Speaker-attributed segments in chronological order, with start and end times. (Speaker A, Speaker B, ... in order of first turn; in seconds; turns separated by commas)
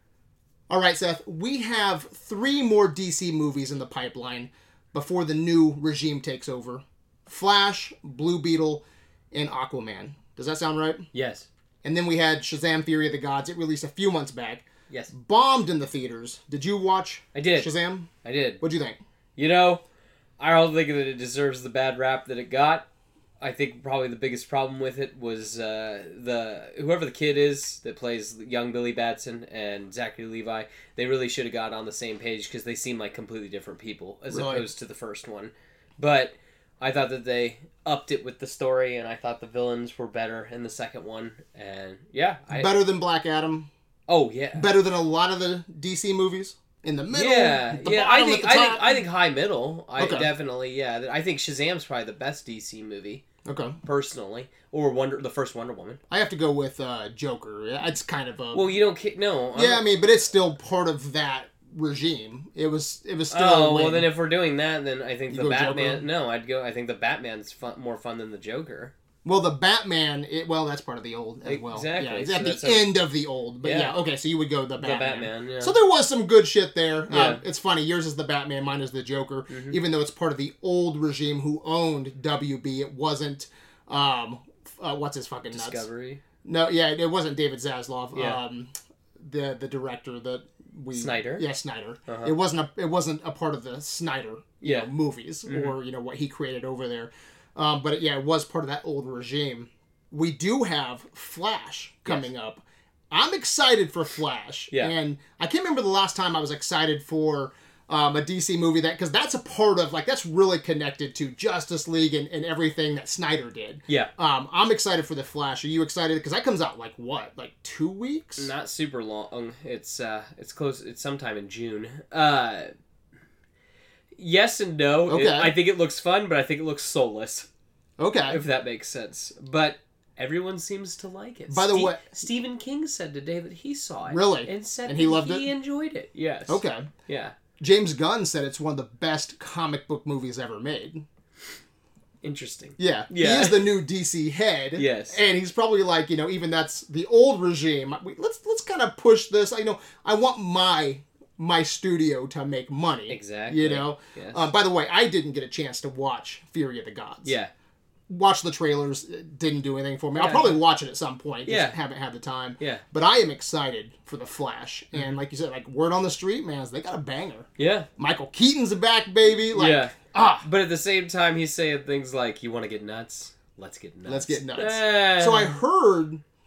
Speaker A: 0.7-11.1, Speaker B: 11.1-11.5, Speaker A: 11.8-19.0, Speaker B: 17.3-17.7, Speaker B: 18.2-18.6, Speaker B: 19.4-19.8, Speaker B: 20.4-22.9, Speaker B: 23.4-42.7, Speaker A: 34.3-34.7, Speaker A: 42.5-43.7, Speaker B: 44.1-44.7, Speaker A: 44.5-49.0, Speaker B: 47.1-53.2, Speaker A: 50.0-50.3, Speaker A: 53.5-53.8, Speaker B: 53.8-56.0, Speaker A: 56.1-58.7, Speaker B: 58.5-59.9, Speaker A: 59.5-64.1, Speaker B: 63.3-68.9, Speaker A: 65.3-66.0, Speaker A: 69.2-85.9, Speaker B: 71.5-72.9, Speaker B: 73.6-73.9, Speaker B: 74.8-75.8, Speaker B: 77.1-77.4, Speaker B: 79.5-79.8, Speaker B: 85.5-86.2, Speaker A: 86.4-118.5, Speaker B: 88.1-88.4, Speaker B: 90.9-91.5, Speaker B: 92.1-92.3, Speaker B: 94.6-94.9, Speaker B: 95.5-95.8, Speaker B: 118.4-122.7, Speaker B: 124.2-127.5, Speaker A: 125.1-125.5, Speaker A: 128.0-128.4, Speaker B: 128.3-137.4, Speaker A: 131.5-132.2, Speaker A: 134.1-135.5, Speaker A: 136.5-136.9, Speaker A: 137.6-141.1, Speaker B: 142.2-143.7, Speaker A: 142.8-157.4, Speaker B: 144.8-145.2, Speaker B: 153.1-154.5, Speaker B: 157.2-157.5, Speaker A: 158.1-170.5, Speaker B: 160.1-160.6, Speaker B: 161.4-161.8, Speaker B: 167.6-167.9, Speaker B: 169.5-175.6, Speaker A: 174.1-176.2